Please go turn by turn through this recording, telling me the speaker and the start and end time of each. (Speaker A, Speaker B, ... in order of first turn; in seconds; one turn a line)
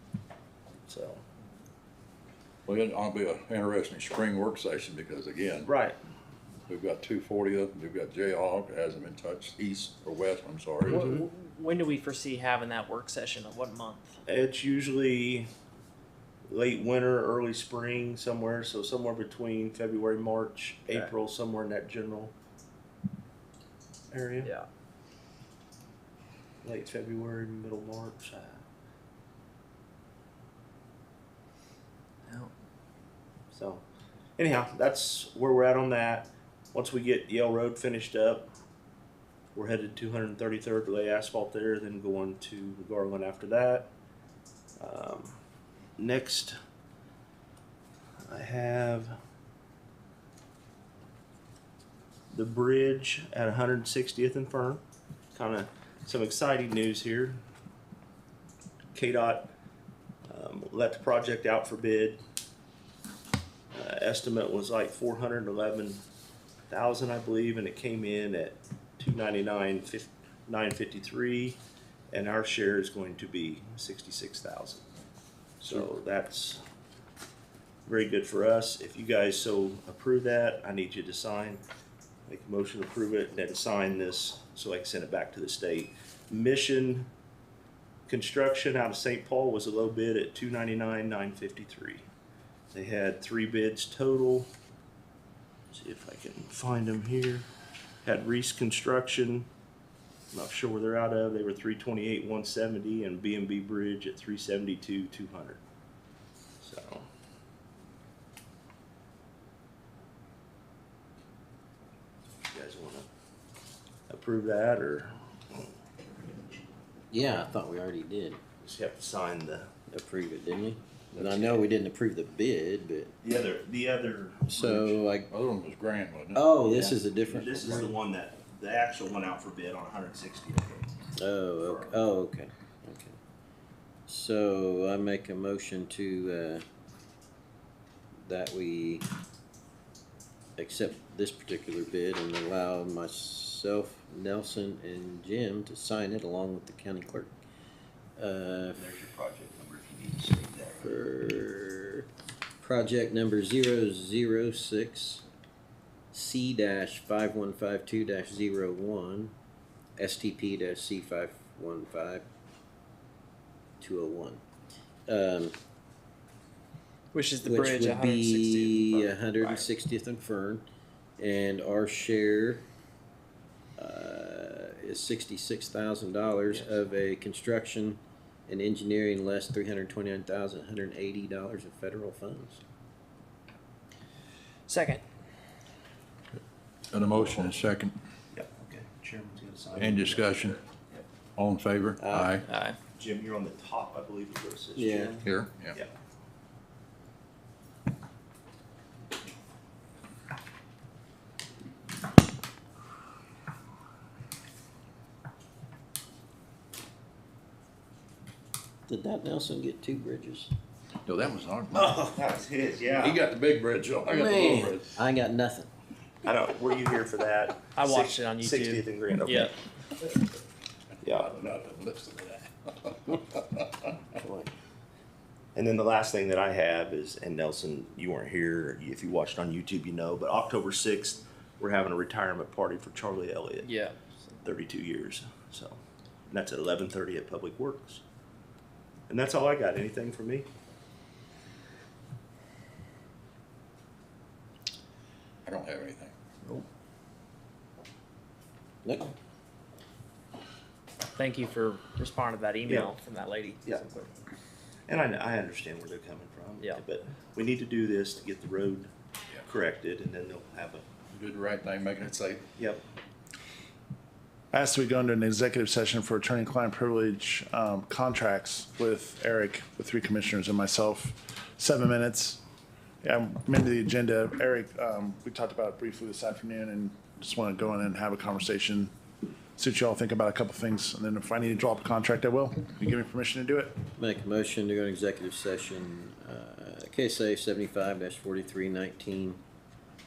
Speaker A: 0.9-1.2
Speaker B: 2.7-5.7
Speaker A: 5.7-6.0
Speaker B: 6.7-11.2
Speaker C: 10.9-14.1
Speaker A: 14.3-15.5
Speaker A: 16.5-22.3
Speaker A: 24.1-24.5
Speaker A: 26.6-28.6
Speaker A: 33.5-33.8
Speaker A: 34.4-38.5
Speaker A: 39.5-43.9
Speaker A: 44.8-45.4
Speaker A: 46.0-46.6
Speaker A: 48.3-49.1
Speaker A: 52.3-54.8
Speaker A: 55.4-57.4
Speaker A: 59.0-59.5
Speaker A: 60.3-62.2
Speaker A: 63.7-66.0
Speaker A: 66.7-71.6
Speaker A: 72.1-74.8
Speaker A: 75.6-76.6
Speaker A: 77.9-81.6
Speaker A: 82.3-87.1
Speaker A: 88.1-92.0
Speaker A: 92.7-94.5
Speaker A: 95.7-97.5
Speaker A: 98.0-99.5
Speaker A: 100.3-105.6
Speaker A: 106.6-107.1
Speaker A: 112.5-113.1
Speaker A: 114.1-115.7
Speaker D: 117.1-118.4
Speaker A: 118.6-119.7
Speaker D: 119.9-123.2
Speaker A: 121.1-121.6
Speaker A: 123.2-125.0
Speaker D: 124.5-125.3
Speaker B: 125.3-126.7
Speaker D: 126.3-127.9
Speaker A: 126.6-130.9
Speaker D: 131.2-133.2
Speaker A: 131.7-131.9
Speaker D: 134.1-136.6
Speaker D: 138.2-139.1
Speaker D: 140.6-147.3
Speaker D: 148.2-148.9
Speaker A: 148.8-150.9
Speaker D: 150.8-152.0
Speaker D: 152.6-155.2
Speaker D: 156.1-159.3
Speaker D: 160.0-162.2
Speaker D: 163.8-164.4
Speaker D: 165.1-165.6
Speaker C: 167.1-169.7
Speaker D: 167.4-170.6
Speaker D: 171.2-172.6
Speaker D: 173.8-182.6
Speaker C: 184.7-185.0
Speaker B: 186.9-187.9
Speaker A: 188.3-191.0
Speaker B: 189.8-190.6
Speaker B: 191.4-192.5
Speaker D: 192.0-192.3
Speaker C: 192.5-192.8
Speaker A: 193.0-195.9
Speaker D: 194.8-195.2
Speaker B: 195.2-195.8
Speaker D: 208.9-210.5
Speaker B: 211.1-212.1
Speaker A: 212.0-213.2
Speaker B: 213.0-214.9
Speaker D: 214.1-215.7
Speaker A: 216.2-219.5
Speaker C: 217.8-219.5
Speaker A: 221.0-221.6
Speaker B: 221.2-223.7
Speaker A: 225.6-233.7
Speaker C: 233.6-234.2
Speaker A: 234.4-235.8
Speaker A: 236.3-238.0
Speaker A: 239.1-240.5
Speaker B: 245.4-246.1
Speaker D: 248.8-249.1
Speaker C: 251.1-254.1
Speaker A: 252.7-252.9
Speaker A: 254.9-258.9
Speaker A: 259.4-260.9
Speaker B: 261.1-262.5
Speaker E: 264.5-272.4
Speaker E: 273.0-278.9
Speaker E: 279.6-283.8
Speaker D: 284.0-289.4